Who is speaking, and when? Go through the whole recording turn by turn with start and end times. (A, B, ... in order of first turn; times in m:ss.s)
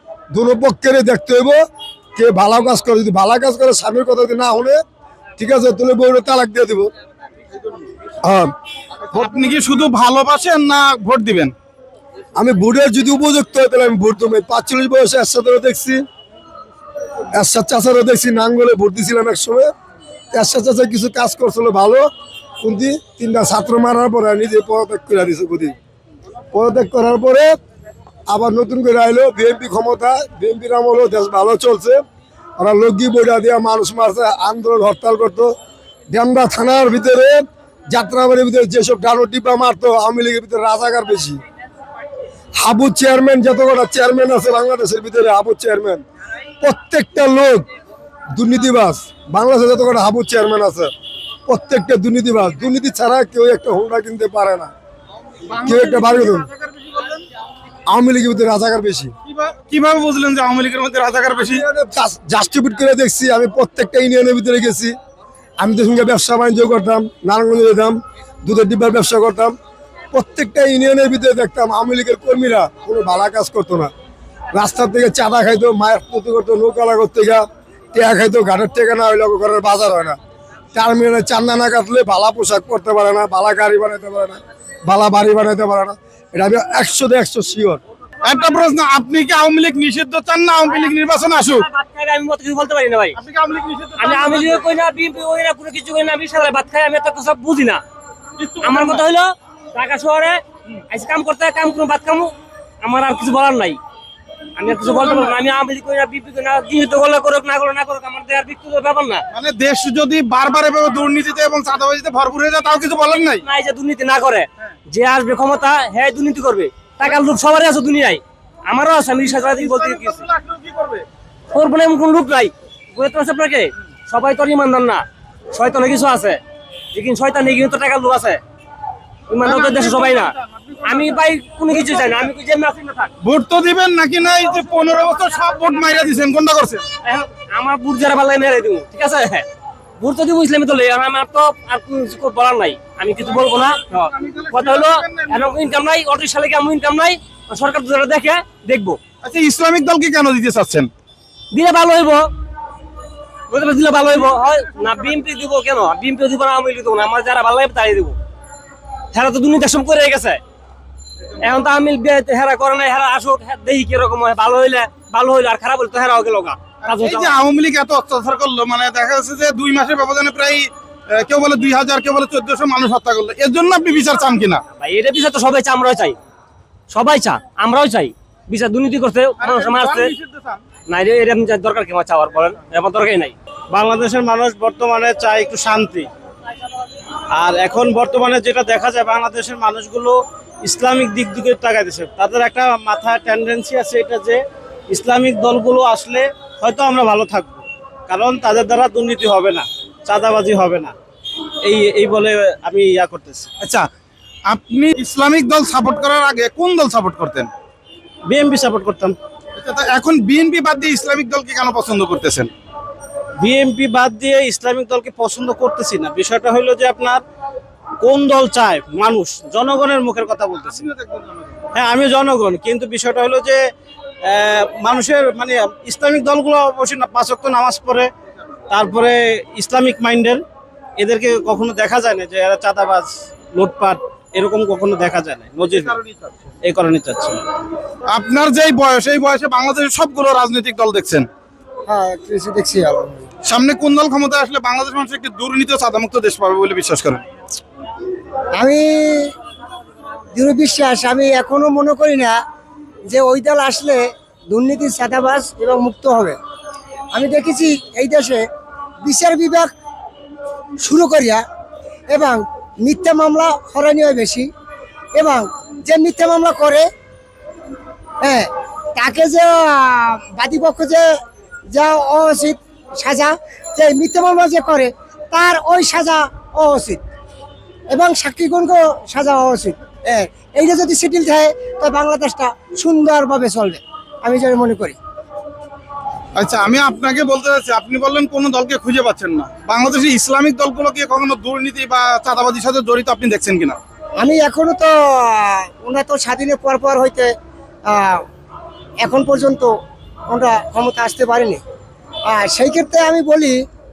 0:00.3-0:01.6 A
0:02.2-0:04.8 A
0:05.4-0:06.9 A
0:08.2-0:08.5 A
0:09.1-0:11.5 B
0:12.4-0:16.0 A
0:17.3-0:19.7 A
0:20.3-0:22.0 A
0:22.6-0:25.7 A
0:26.5-0:27.5 A
0:28.3-0:32.0 A
0:32.6-0:35.5 A
0:36.1-0:41.4 A
0:42.6-0:46.0 A
0:46.6-0:47.6 A
0:48.3-0:50.9 A
0:51.5-0:54.7 A
0:55.5-0:57.2 B
0:55.6-0:56.5 A
0:57.9-0:59.1 A
0:59.3-1:01.6 B
1:01.5-1:04.9 A
1:05.6-1:09.5 A
1:10.1-1:13.9 A
1:14.5-1:20.2 A
1:20.7-1:27.8 A
1:28.2-1:31.6 B
1:31.5-1:33.2 C
1:33.1-1:34.6 B
1:34.0-1:37.8 C
1:38.4-1:39.0 B
1:38.6-1:43.8 C
1:44.6-1:49.2 C
1:44.8-1:45.3 B
1:49.3-1:53.4 B
1:53.4-2:00.2 C
1:59.4-2:01.0 B
2:01.5-2:06.4 C
2:06.9-2:08.4 C
2:09.3-2:13.1 C
2:09.4-2:11.1 B
2:11.7-2:12.2 B
2:13.2-2:16.9 B
2:17.0-2:19.5 C
2:20.0-2:29.0 C
2:23.9-2:25.5 B
2:29.2-2:30.9 B
2:31.5-2:32.3 C
2:33.5-2:38.2 C
2:39.1-2:40.4 C
2:41.4-2:47.4 C
2:46.8-2:54.6 B
2:54.7-2:56.2 C
2:56.9-3:00.1 C
2:59.4-3:00.7 B
3:00.8-3:03.3 C
3:03.7-3:06.1 D
3:07.3-3:20.9 D
3:21.6-3:23.5 D
3:23.6-3:23.9 B
3:24.5-3:27.5 B
3:28.3-3:29.1 D
3:29.6-3:32.5 B
3:33.4-3:37.2 D
3:38.0-3:40.8 D
3:40.8-3:41.5 B
3:41.7-3:43.6 D
3:44.2-3:48.1 D
3:48.7-3:50.4 D
3:51.0-3:56.0 D
3:55.7-3:56.4 B
3:56.6-3:57.4 D
3:58.1-4:01.3 B
4:01.9-4:03.2 E
4:03.4-4:07.2 B
4:08.5-4:09.3 E
4:10.3-4:12.4 E
4:13.1-4:16.4 E
4:17.1-4:18.4 E
4:19.0-4:19.7 E
4:20.8-4:21.4 E
4:22.1-4:24.5 E
4:25.2-4:26.8 E
4:28.2-4:31.0 E
4:31.7-4:37.0 E
4:37.9-4:45.0 E
4:46.4-4:53.8 B
4:54.2-4:57.3 E
4:57.9-4:58.2 E
4:59.0-4:59.7 E
5:00.3-5:01.6 E
5:02.3-5:03.6 E